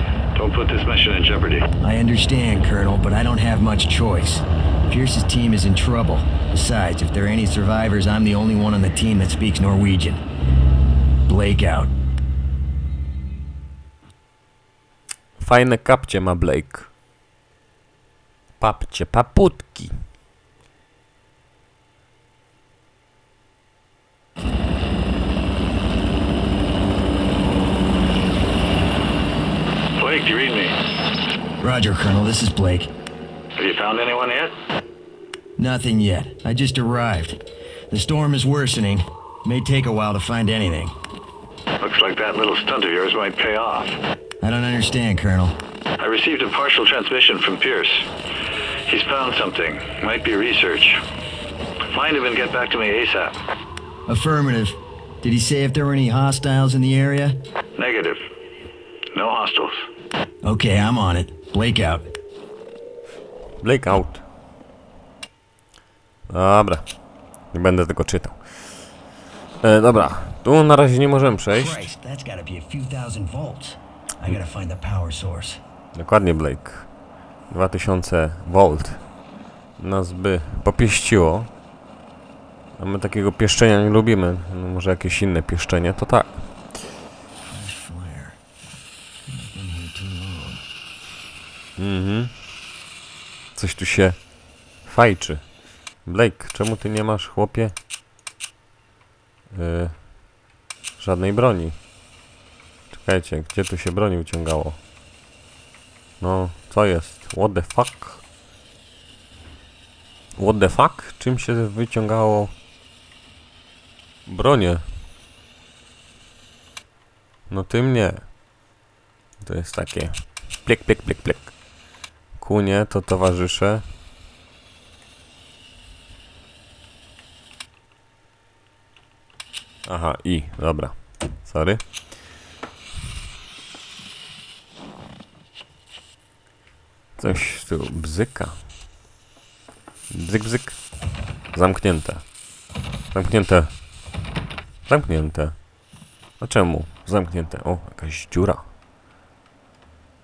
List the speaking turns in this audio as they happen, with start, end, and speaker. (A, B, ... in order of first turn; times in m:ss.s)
0:00.3-0:01.7 A
0:01.8-0:10.2 B
0:11.3-0:11.9 B
0:15.4-0:16.9 C
0:18.6-0:19.9 C
0:29.9-0:30.8 A
0:31.6-0:32.9 B
0:33.6-0:34.6 A
0:35.6-0:37.4 B
0:37.9-0:40.9 B
0:41.8-0:44.0 A
0:44.4-0:45.6 B
0:46.0-0:48.1 A
0:48.9-0:51.0 A
0:51.9-0:53.4 A
0:54.1-0:57.4 B
0:57.8-0:58.2 A
0:59.1-0:59.8 A
1:00.4-1:02.1 B
1:03.6-1:04.2 C
1:06.3-1:06.9 C
1:07.5-1:08.4 C
1:09.6-1:11.9 C
1:11.5-1:15.6 B
1:15.9-1:16.9 C
1:17.5-1:19.0 C
1:19.8-1:21.5 C
1:22.8-1:26.4 C
1:27.5-1:28.4 B
1:29.3-1:30.6 B
1:31.8-1:32.3 C
1:33.5-1:34.2 C
1:34.8-1:35.4 C
1:36.0-1:37.7 C
1:39.5-1:39.9 C
1:41.0-1:41.8 C
1:42.9-1:44.8 C
1:46.2-1:48.2 C
1:50.4-1:52.5 C
1:54.3-1:54.8 C
1:57.5-1:58.2 C
1:59.4-2:01.5 C
2:02.4-2:03.8 C
2:09.8-2:11.8 C
2:17.2-2:18.6 C
2:20.1-2:20.8 C
2:21.5-2:22.2 C
2:23.1-2:23.7 C
2:24.9-2:25.6 C
2:26.4-2:28.6 C